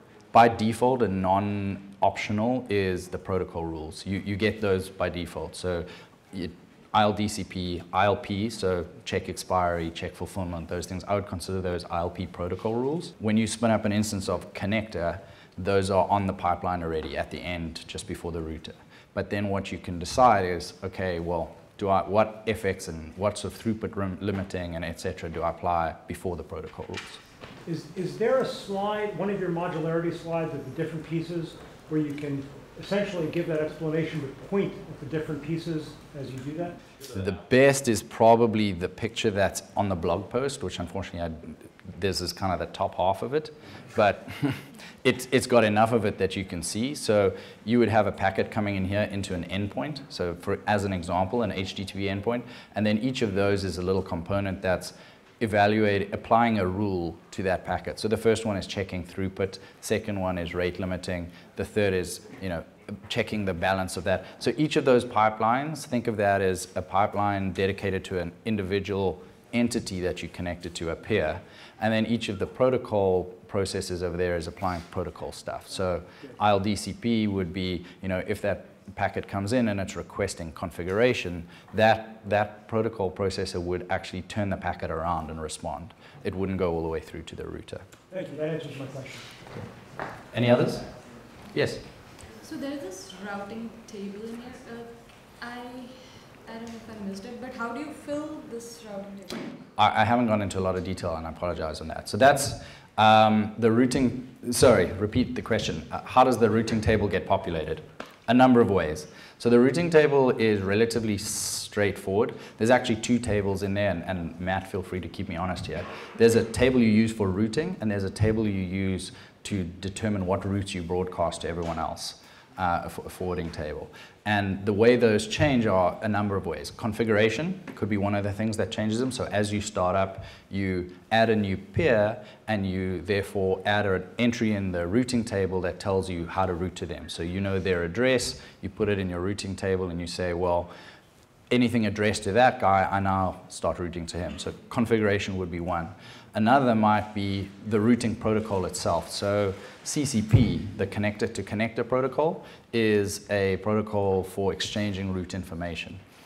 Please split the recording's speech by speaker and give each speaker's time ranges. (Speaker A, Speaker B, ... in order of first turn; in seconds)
Speaker A: 0.3-27.2, 37.0-87.8, 90.3-91.8, 99.8-140.7, 141.5-156.0
Speaker B: 27.6-36.8, 88.1-89.3
Speaker C: 92.4-99.7